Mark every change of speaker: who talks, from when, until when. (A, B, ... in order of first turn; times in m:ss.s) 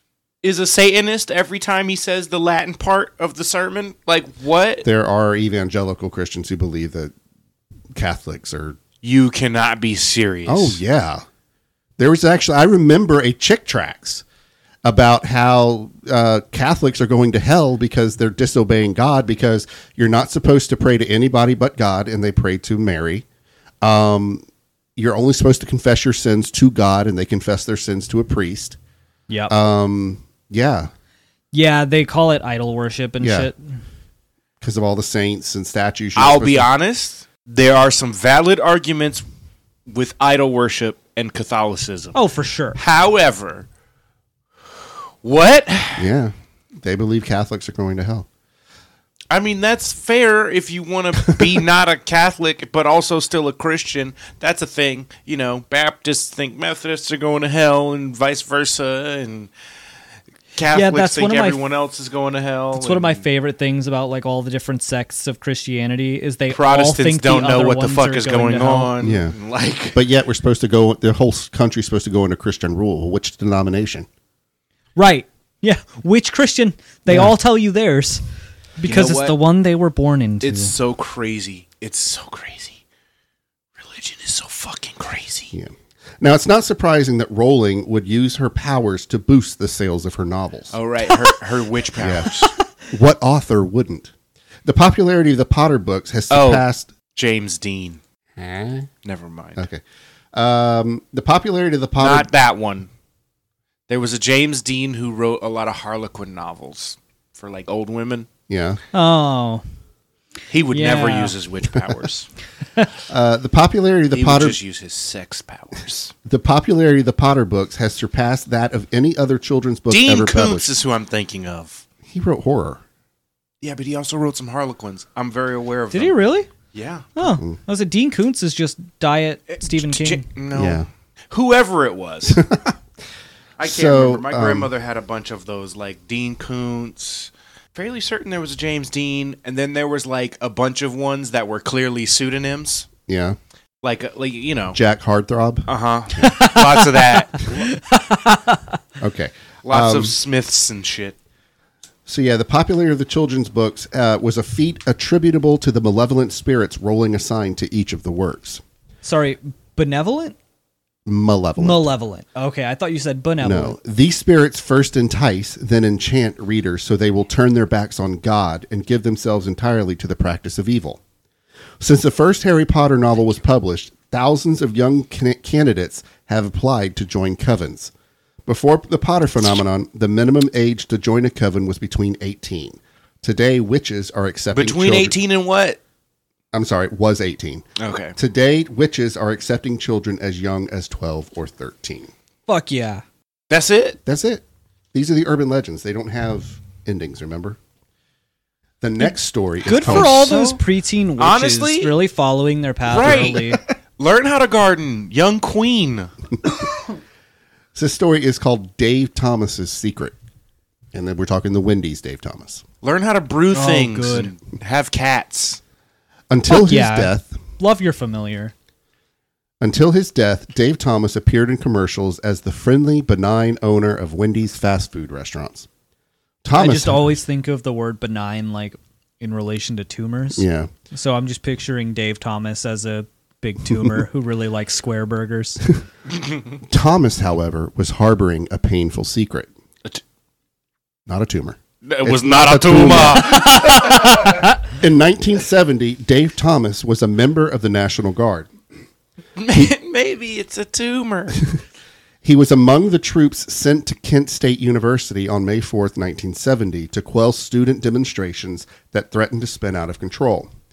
0:00.4-0:04.8 A
0:04.8-0:07.1 B
0:07.9-0:08.8 B
0:09.0-0:10.8 A
0:10.5-0:11.2 B
0:12.0-0:14.2 B
0:14.8-0:23.2 B
0:23.8-0:24.4 B
0:25.0-0:28.8 B
0:29.3-0:29.5 C
0:29.5-0:30.9 B
0:31.5-0:33.6 C
0:33.2-0:33.5 B
0:34.6-0:36.7 B
0:36.2-0:39.2 A
0:39.9-0:42.2 A
0:42.1-0:42.8 C
0:42.8-0:43.7 A
0:45.2-0:46.1 A
0:46.0-0:48.3 B
0:49.3-0:59.5 A
1:00.6-1:03.2 A
1:00.7-1:01.6 C
1:02.8-1:08.9 C
1:06.5-1:10.0 A
1:09.0-1:09.4 B
1:09.9-1:14.1 B
1:15.0-1:18.2 C
1:18.8-1:20.7 C
1:18.8-1:19.4 A
1:20.4-1:22.8 A
1:23.8-1:25.5 A
1:25.5-1:30.8 B
1:30.7-1:32.5 A
1:32.0-1:32.4 B
1:32.9-1:34.1 B
1:34.6-1:36.9 B
1:36.3-1:38.0 A
1:38.4-1:38.9 B
1:39.0-1:39.6 A
1:39.6-1:39.8 B
1:40.3-1:42.3 B
1:42.0-1:42.9 A
1:43.9-1:48.3 A
1:48.5-1:48.8 B
1:48.9-1:49.6 C
1:50.5-1:52.3 A
1:50.7-1:51.4 C
1:53.1-1:54.6 B
1:54.1-1:56.1 A
1:56.3-2:00.7 B
1:59.9-2:01.8 A
2:02.1-2:02.8 B
2:03.6-2:06.2 A
2:05.9-2:06.5 C
2:06.7-2:07.1 A
2:07.2-2:10.3 C
2:07.2-2:07.6 B
2:09.5-2:12.4 A
2:10.5-2:10.9 B
2:12.3-2:12.8 B
2:13.6-2:22.9 A
2:13.6-2:14.7 B
2:23.1-2:23.4 B
2:23.8-2:24.8 A
2:24.7-2:26.3 B
2:25.7-2:27.7 A
2:26.2-2:28.8 C
2:29.0-2:30.2 B
2:29.6-2:31.2 A
2:32.1-2:38.6 B
2:39.0-2:40.4 C
2:41.1-2:41.9 B
2:41.6-2:43.8 C
2:43.4-2:51.0 B
2:51.8-2:57.9 B
2:58.5-3:05.2 B
3:04.5-3:05.8 A
3:06.5-3:12.1 B
3:07.8-3:08.2 A
3:12.5-3:13.0 C
3:13.5-3:14.0 A
3:14.0-3:17.6 B
3:18.8-3:20.3 B
3:19.6-3:23.6 C
3:19.7-3:20.6 A
3:21.2-3:22.0 A
3:22.8-3:26.1 A
3:23.0-3:23.5 B
3:27.8-3:30.2 B
3:30.9-3:32.6 B
3:32.8-3:35.6 A
3:33.5-3:34.3 C
3:36.3-3:37.4 B
3:36.5-3:38.5 C
3:39.6-3:45.7 B
3:46.4-3:47.2 B
3:46.5-3:55.7 C
3:50.4-3:50.7 B
3:56.7-3:59.5 B
4:01.1-4:08.5 B
4:01.8-4:04.3 A
4:03.3-4:04.4 C
4:09.4-4:11.4 A
4:12.2-4:20.5 B